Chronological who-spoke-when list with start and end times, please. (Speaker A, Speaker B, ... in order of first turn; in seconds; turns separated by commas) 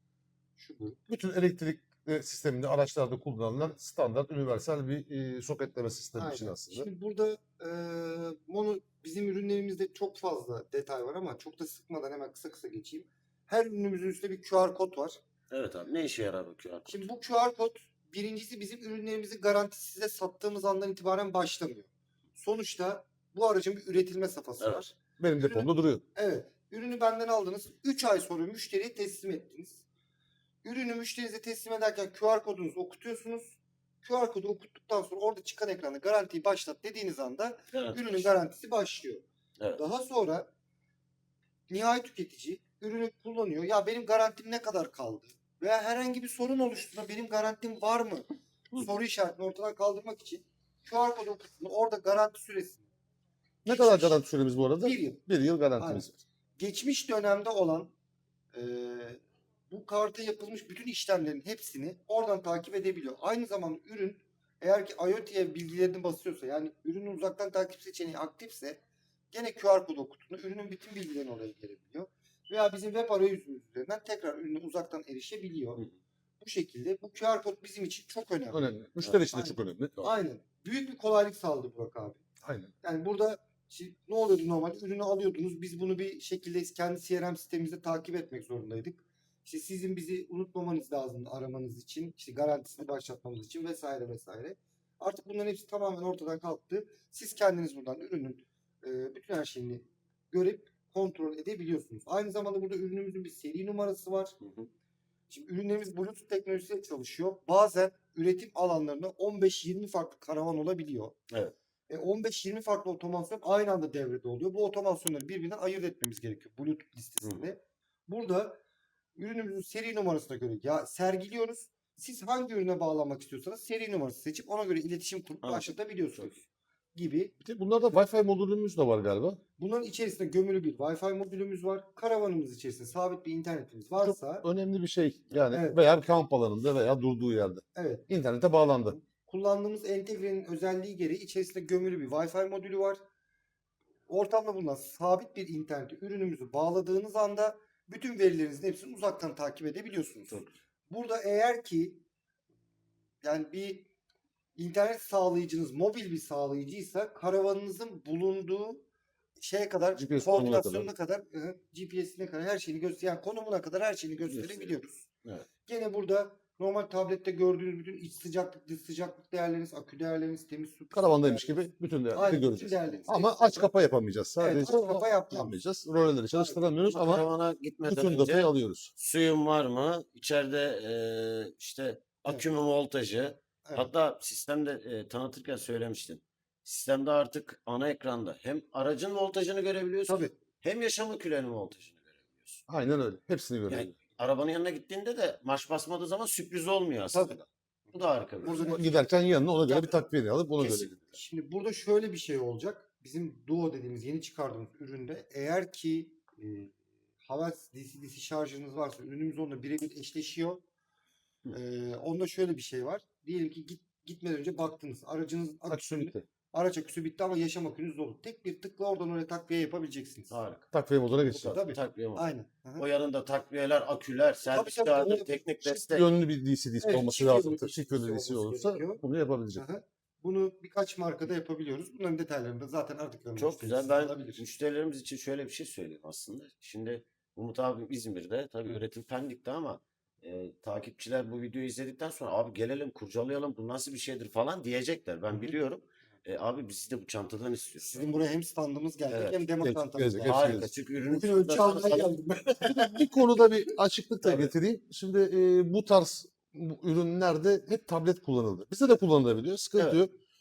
Speaker A: 0.6-1.0, Speaker B: 1.1-6.9, Speaker A: 6.2-15.2, Speaker C: 15.5-17.0, Speaker A: 16.9-29.8, Speaker B: 25.2-26.0, Speaker A: 30.6-39.2, Speaker C: 37.7-38.3, Speaker A: 39.8-40.5, Speaker A: 41.7-52.9, Speaker A: 53.6-54.2, Speaker B: 53.6-56.2, Speaker A: 54.8-55.2, Speaker A: 55.8-56.1, Speaker A: 56.6-57.9, Speaker A: 58.5-68.8, Speaker A: 69.3-75.9, Speaker A: 76.4-82.2, Speaker B: 78.5-80.1, Speaker B: 82.4-82.7, Speaker A: 82.8-104.3, Speaker C: 104.4-104.7, Speaker A: 105.3-111.2, Speaker A: 111.9-118.6, Speaker A: 119.2-126.4, Speaker C: 125.4-126.4, Speaker A: 126.9-127.3, Speaker B: 127.4-129.4, Speaker A: 129.6-134.5, Speaker B: 134.0-139.0, Speaker A: 135.5-135.8, Speaker A: 137.8-138.1, Speaker A: 139.0-143.0, Speaker A: 144.1-152.0, Speaker A: 153.2-153.9, Speaker A: 154.6-158.8, Speaker A: 159.4-165.0, Speaker B: 160.0-160.9, Speaker C: 164.3-164.7, Speaker A: 165.7-173.7, Speaker B: 170.9-177.2, Speaker A: 174.4-175.6, Speaker A: 176.3-176.6, Speaker C: 176.9-192.6, Speaker B: 177.9-178.9, Speaker B: 192.7-193.9, Speaker C: 193.7-198.6, Speaker A: 197.1-197.4, Speaker A: 198.4-199.1, Speaker B: 198.5-200.9, Speaker A: 199.7-199.9, Speaker A: 200.6-206.7, Speaker A: 207.2-210.6, Speaker A: 211.5-220.4, Speaker B: 215.7-216.2, Speaker C: 220.3-220.7, Speaker B: 220.7-221.6, Speaker A: 221.3-222.8, Speaker C: 221.6-222.3, Speaker C: 222.8-226.1, Speaker A: 224.5-225.4, Speaker B: 225.8-229.6, Speaker A: 226.8-229.0, Speaker A: 229.6-234.4, Speaker C: 233.3-248.1, Speaker A: 247.8-253.1, Speaker C: 249.1-249.4, Speaker B: 249.6-250.7, Speaker C: 250.2-252.4, Speaker B: 252.6-260.1, Speaker C: 254.2-254.5